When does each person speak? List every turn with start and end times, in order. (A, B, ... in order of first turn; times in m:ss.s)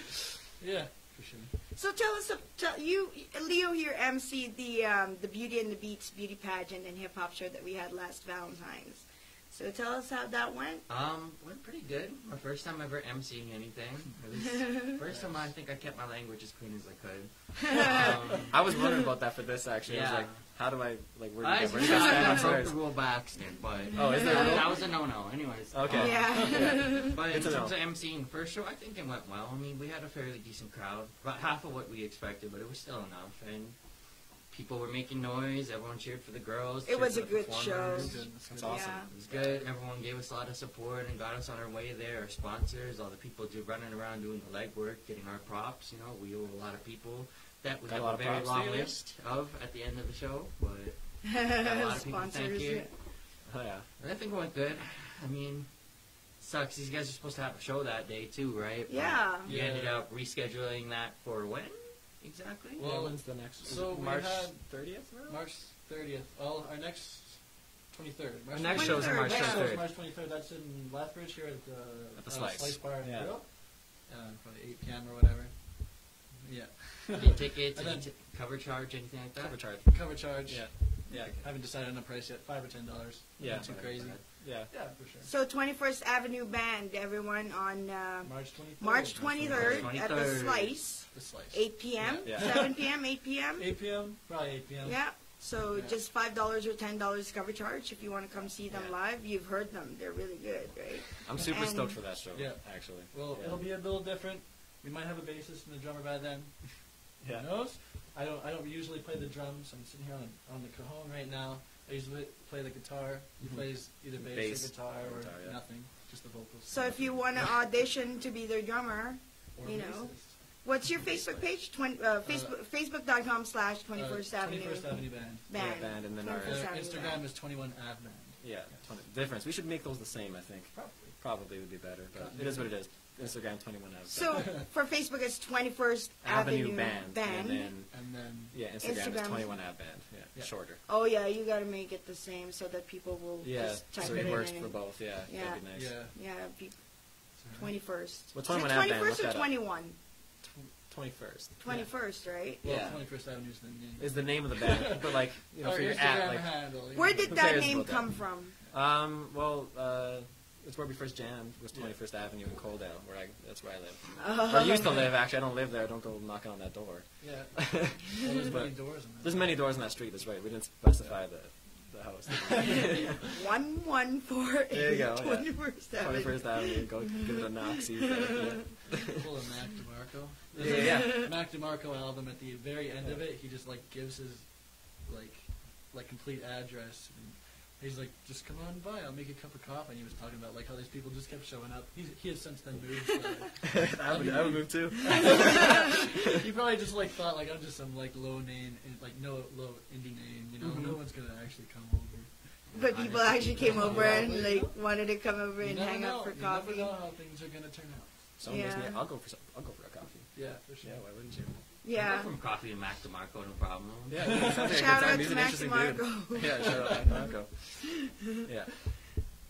0:00.6-0:01.5 A
0:01.8-0:10.8 B
0:10.9-0:18.6 C
0:14.7-0:15.0 B
0:15.1-0:15.4 A
0:17.8-0:18.0 B
0:18.0-0:22.8 D
0:19.9-0:20.4 C
0:21.4-0:38.2 C
0:23.9-0:24.9 D
0:24.0-0:24.6 B
0:25.7-0:27.8 D
0:25.9-0:27.2 B
0:26.3-0:26.6 A
0:36.9-0:39.1 B
0:37.9-0:38.8 A
0:38.4-0:39.7 D
0:39.1-0:53.1 C
0:47.9-0:49.0 D
0:51.3-0:52.9 B
0:53.5-0:53.9 D
0:54.0-1:02.8 C
0:58.9-0:59.5 B
0:59.4-1:00.0 A
1:02.8-1:18.1 A
1:02.8-1:05.4 D
1:08.5-1:09.9 D
1:08.7-1:09.8 B
1:12.2-1:13.4 D
1:17.2-1:19.6 C
1:19.4-1:21.4 D
1:19.9-1:25.3 A
1:21.2-1:21.4 C
1:23.4-1:24.7 D
1:23.5-1:24.2 C
1:25.2-1:33.7 B
1:28.2-1:29.9 A
1:29.5-1:30.8 C
1:31.1-1:33.0 A
1:32.2-1:32.6 D
1:33.6-1:36.0 A
1:34.8-1:42.0 B
1:41.2-1:43.7 D
1:42.3-1:57.5 A
1:47.2-1:47.5 D
1:53.4-1:55.6 D
1:56.7-2:07.2 B
1:59.6-2:01.5 A
2:02.2-2:02.6 A
2:03.9-2:05.5 A
2:05.5-2:06.7 D
2:06.2-2:08.9 A
2:08.4-2:14.5 D
2:10.7-2:11.2 A
2:12.1-2:12.8 A
2:14.1-2:17.7 B
2:14.3-2:14.6 A
2:16.2-2:20.8 D
2:17.9-2:18.6 A
2:18.8-2:19.7 B
2:20.9-2:30.0 B
2:23.4-2:26.0 D
2:25.7-2:26.2 A
2:27.4-2:27.7 A
2:28.3-2:31.6 D
2:31.6-2:32.6 B
2:31.6-2:37.8 A
2:32.6-2:33.1 D
2:34.0-2:36.7 D
2:36.9-2:38.6 B
2:37.2-2:53.1 D
2:41.7-2:42.0 A
2:44.2-2:45.1 B
2:47.2-2:49.7 A
2:52.6-2:53.2 A
2:53.3-2:58.5 B
2:54.7-2:59.0 D
2:59.1-3:22.6 A
3:00.6-3:01.3 D
3:00.6-3:01.3 B
3:13.8-3:15.9 D
3:20.6-3:21.0 D
3:22.7-3:24.4 C
3:22.8-3:26.9 B
3:23.7-3:24.8 A
3:23.9-3:24.3 D
3:25.6-3:28.2 A
3:28.4-3:31.6 D
3:28.5-3:29.0 B
3:30.3-3:31.0 A
3:31.8-3:32.3 B
3:31.9-3:34.5 C
3:34.1-3:39.3 D
3:34.5-3:38.1 B